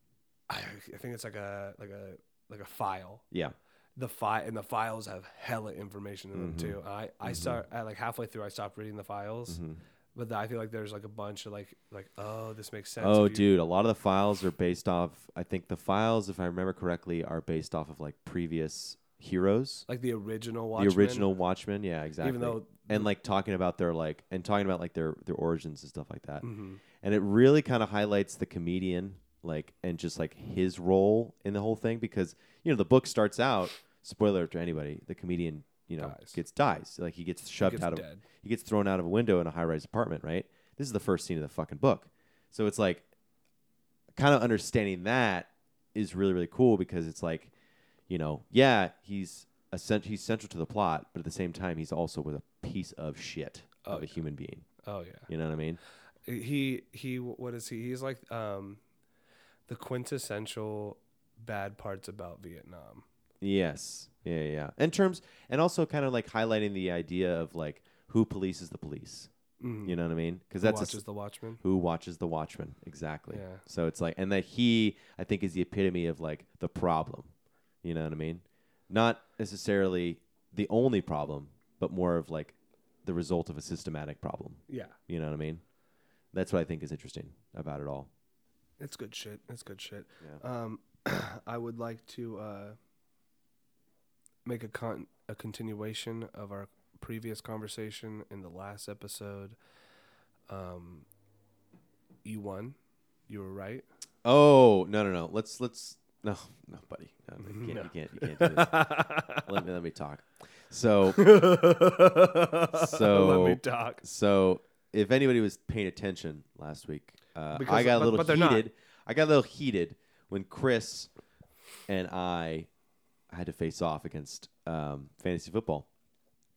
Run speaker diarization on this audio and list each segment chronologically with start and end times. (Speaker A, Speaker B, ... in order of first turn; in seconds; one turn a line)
Speaker A: 0.5-3.2
Speaker B: 3.3-3.6
Speaker A: 4.0-9.6
Speaker B: 6.3-7.6
Speaker B: 9.5-9.8
Speaker A: 10.2-13.5
Speaker B: 13.0-19.9
Speaker A: 19.9-21.4
Speaker B: 20.8-26.4
Speaker A: 22.2-23.1
Speaker A: 26.4-26.8
Speaker B: 27.0-43.1
Speaker A: 36.0-36.4
Speaker A: 37.6-38.2
Speaker B: 44.1-47.5
Speaker B: 48.1-54.7
Speaker A: 53.8-54.3
Speaker A: 54.8-55.3
Speaker B: 55.3-55.8
Speaker A: 56.3-58.8
Speaker A: 59.7-63.0
Speaker B: 63.4-69.3
Speaker A: 69.6-70.0
Speaker B: 69.8-71.0
Speaker A: 70.6-71.6
Speaker B: 71.6-77.3
Speaker A: 73.3-73.6
Speaker B: 77.8-85.6
Speaker A: 84.7-85.0
Speaker B: 86.3-88.1
Speaker A: 88.8-92.8
Speaker A: 94.5-99.6
Speaker A: 100.5-101.1
Speaker A: 102.2-102.8
Speaker A: 103.3-103.8
Speaker B: 104.2-111.3
Speaker A: 107.4-109.5
Speaker A: 111.1-114.0
Speaker B: 112.7-121.1
Speaker A: 117.5-118.7
Speaker B: 121.9-122.7
Speaker B: 123.3-125.9